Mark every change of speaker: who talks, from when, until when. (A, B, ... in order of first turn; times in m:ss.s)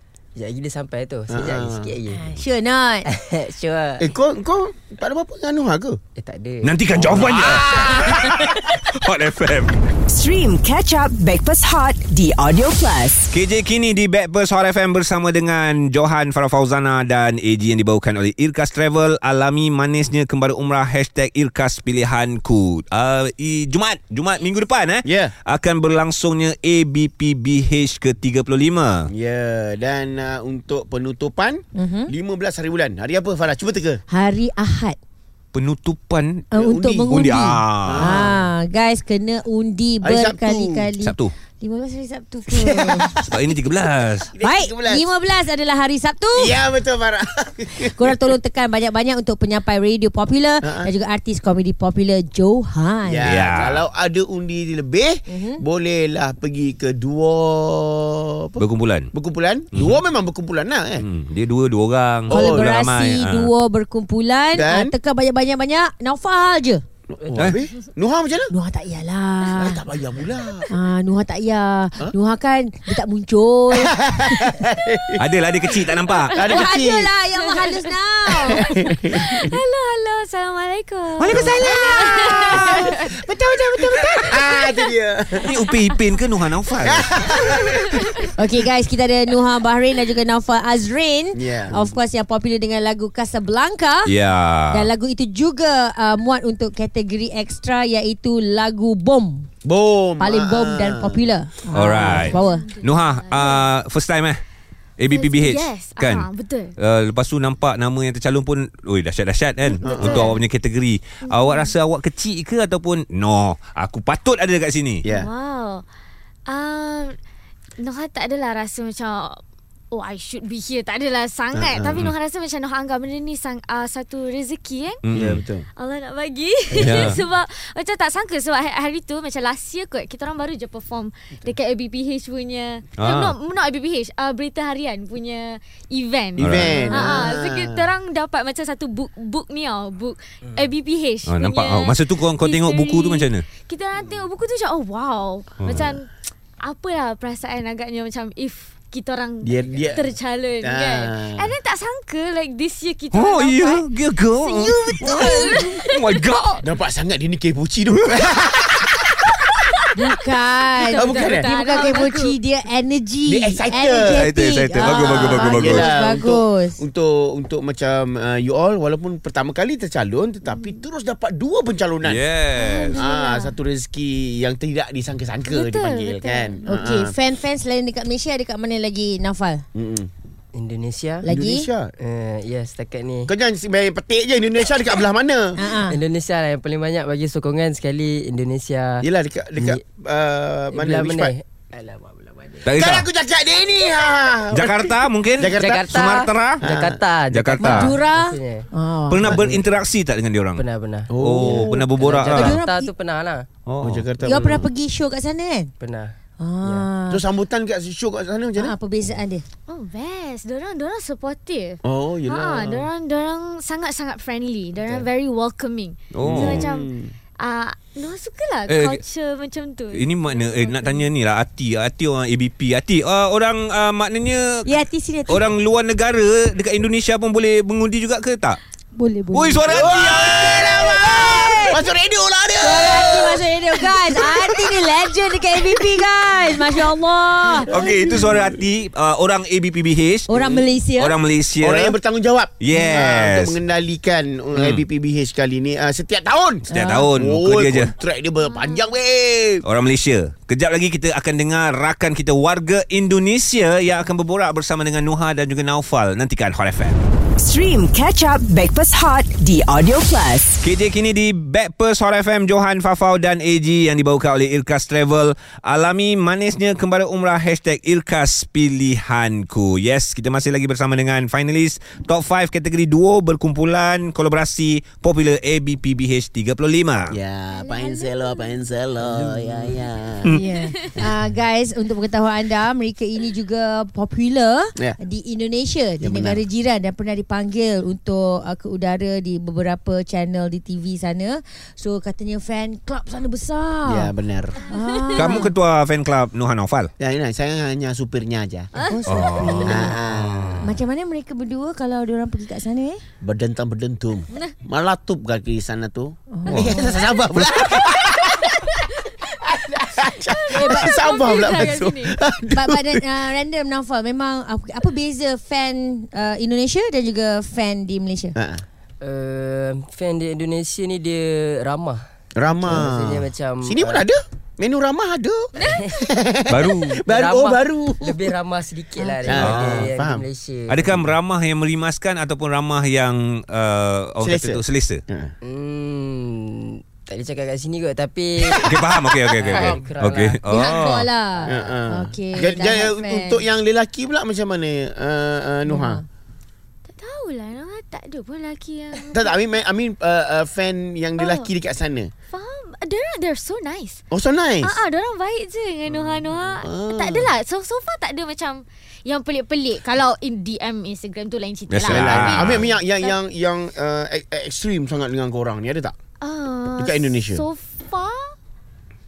0:00.4-0:02.2 A
0:01.3-0:02.0 B
0:02.1-0:03.0 C
0:03.0-0:04.1 A
0:04.0-0:06.0 B
0:06.2-0:07.4 A
0:06.6-0:09.7 D
0:07.4-0:07.8 B
0:10.1-0:13.3 E
0:13.3-0:29.1 D
0:25.0-0:25.3 B
0:29.1-0:34.0 B
0:31.7-0:32.1 C
0:34.1-0:35.0 C
0:35.5-0:36.5 D
0:36.5-0:43.2 C
0:36.6-0:37.3 B
0:37.1-0:38.2 D
0:37.8-0:38.4 B
0:40.0-0:40.9 B
0:41.0-0:41.3 D
0:42.5-0:43.3 B
0:43.3-0:44.3 D
0:44.3-0:45.0 B
0:44.4-0:46.6 C
0:46.4-0:48.2 B
0:47.8-0:53.7 C
0:50.6-0:50.9 B
0:53.0-1:01.0 B
0:53.2-0:53.8 D
0:55.3-0:55.6 C
0:58.6-0:59.1 D
0:59.7-1:00.0 D
1:01.0-1:03.5 D
1:02.3-1:02.7 B
1:02.3-1:06.8 C
1:04.5-1:04.9 B
1:07.1-1:08.5 B
1:08.5-1:09.8 C
1:09.6-1:10.7 B
1:10.7-1:14.5 C
1:14.1-1:17.1 B
1:15.2-1:16.4 D
1:16.0-1:16.7 F
1:16.5-1:18.7 C
1:17.4-1:17.9 F
1:18.4-1:22.9 F
1:18.6-1:19.4 B
1:21.2-1:22.8 D
1:21.3-1:24.4 C
1:21.6-1:22.3 B
1:23.3-1:25.6 B
1:25.4-1:27.1 D
1:26.8-1:27.9 B
1:27.5-1:28.2 F
1:28.4-1:34.1 C
1:31.3-1:31.9 B
1:34.0-1:34.9 D
1:34.7-1:39.5 C
1:39.6-1:41.2 B
1:40.2-1:42.7 C
1:41.7-1:44.4 D
1:42.0-1:43.6 F
1:45.0-1:55.0 D
1:45.1-1:46.7 F
1:49.8-1:50.4 F
1:49.8-1:50.3 B
1:51.2-1:51.7 F
1:55.0-1:55.3 B
1:55.1-1:55.8 F
1:56.5-1:57.2 F
1:57.8-1:59.4 F
1:59.9-2:05.0 F
2:01.5-2:02.0 B
2:05.0-2:05.4 D
2:05.1-2:05.7 B
2:05.8-2:26.1 F
2:06.7-2:07.2 D
2:06.7-2:07.2 B
2:13.0-2:13.3 D
2:16.4-2:16.8 D
2:16.4-2:17.8 B
2:16.6-2:17.1 C
2:21.3-2:23.4 D
2:25.6-2:25.9 D
2:26.6-2:36.1 F
2:29.4-2:30.1 B
2:30.6-2:31.5 B
2:33.1-2:36.6 D
2:34.6-2:35.6 C
2:36.6-2:38.9 B
2:39.9-2:46.8 C
2:40.7-2:42.4 F
2:41.0-2:41.5 B
2:43.3-2:52.2 B
2:44.1-2:45.8 D
2:50.5-2:50.7 F
2:52.0-2:53.0 D
2:52.5-2:53.5 F
2:52.9-2:57.1 B
2:55.5-2:56.6 F
2:56.6-2:59.6 C
2:59.7-3:00.1 B
3:00.5-3:01.3 A
3:01.2-3:01.7 C
3:01.3-3:01.9 B
3:02.0-3:03.3 A
3:03.3-3:05.6 B
3:05.6-3:06.0 C
3:05.8-3:09.0 A
3:09.0-3:11.3 B
3:10.7-3:12.7 A
3:12.6-3:13.1 D
3:12.7-3:15.8 B
3:14.5-3:16.6 D
3:15.5-3:18.7 A
3:16.6-3:17.0 B
3:17.3-3:17.9 D
3:17.6-3:19.3 C
3:19.1-3:20.6 D
3:19.2-3:19.6 B
3:20.6-3:23.4 A
3:21.1-3:21.9 B
3:21.2-3:22.6 D
3:22.2-3:22.9 C
3:23.7-3:24.1 D
3:23.8-3:24.6 B
3:24.2-3:25.7 C
3:25.8-3:26.9 A
3:26.4-3:27.2 C
3:27.1-3:28.7 B
3:28.5-3:29.4 C
3:29.7-3:36.9 F
3:31.8-3:32.9 B
3:36.1-3:36.6 D
3:36.2-3:37.1 B
3:37.4-3:41.0 F
3:38.7-3:39.0 D
3:39.9-3:44.7 D
3:44.6-3:45.5 C
3:45.3-3:48.6 D
3:49.0-3:49.8 C
3:49.3-3:50.7 D
3:49.6-3:53.8 B
3:50.4-3:51.8 C
3:52.6-3:57.8 C
3:57.7-4:00.3 D
3:57.8-3:58.4 B
4:00.3-4:01.2 C
4:00.4-4:00.6 B
4:01.0-4:02.0 D
4:01.6-4:09.6 B
4:02.6-4:03.6 D
4:04.5-4:04.8 D
4:06.7-4:07.2 C
4:06.7-4:07.9 D
4:08.4-4:08.9 F
4:09.6-4:17.0 D
4:17.4-4:20.6 E
4:20.6-4:37.2 D
4:37.1-4:40.4 B
4:37.5-4:38.7 F
4:39.0-4:39.9 A
4:40.2-4:54.1 C
4:40.4-4:41.0 F
4:46.0-4:46.4 B
4:53.8-4:54.7 B
4:54.7-4:55.5 C
4:55.0-4:55.4 F
4:55.1-4:56.9 D
4:57.0-4:58.7 B
4:58.8-5:00.0 C
4:59.1-5:00.6 D
4:59.6-5:00.6 B
5:00.6-5:03.0 C
5:03.2-5:08.7 B
5:06.3-5:07.0 C
5:06.5-5:06.8 D
5:09.2-5:13.0 B
5:10.2-5:12.2 F
5:10.5-5:11.0 C
5:12.5-5:18.4 C
5:18.4-5:18.6 B
5:19.0-5:22.0 A
5:22.4-5:28.3 B
5:22.6-5:24.1 A
5:25.6-5:25.9 F
5:26.5-5:26.9 D
5:26.7-5:31.1 A
5:29.0-5:29.5 C
5:29.2-5:30.2 B
5:29.4-5:29.9 D
5:30.7-5:35.0 D
5:34.2-5:35.3 B
5:35.4-5:38.7 A
5:38.6-5:39.8 B
5:38.6-5:41.1 D
5:39.4-5:40.6 A
5:40.4-5:43.4 C
5:41.5-5:46.0 B
5:45.7-5:46.0 C
5:47.0-5:49.3 F
5:49.1-5:52.1 B
5:51.2-5:51.5 F
5:52.3-5:54.0 F
5:54.1-5:54.8 B
5:54.6-6:03.2 F
5:56.6-5:57.3 B
6:01.7-6:02.7 D
6:01.8-6:05.9 B
6:06.2-6:08.4 F
6:06.8-6:07.4 B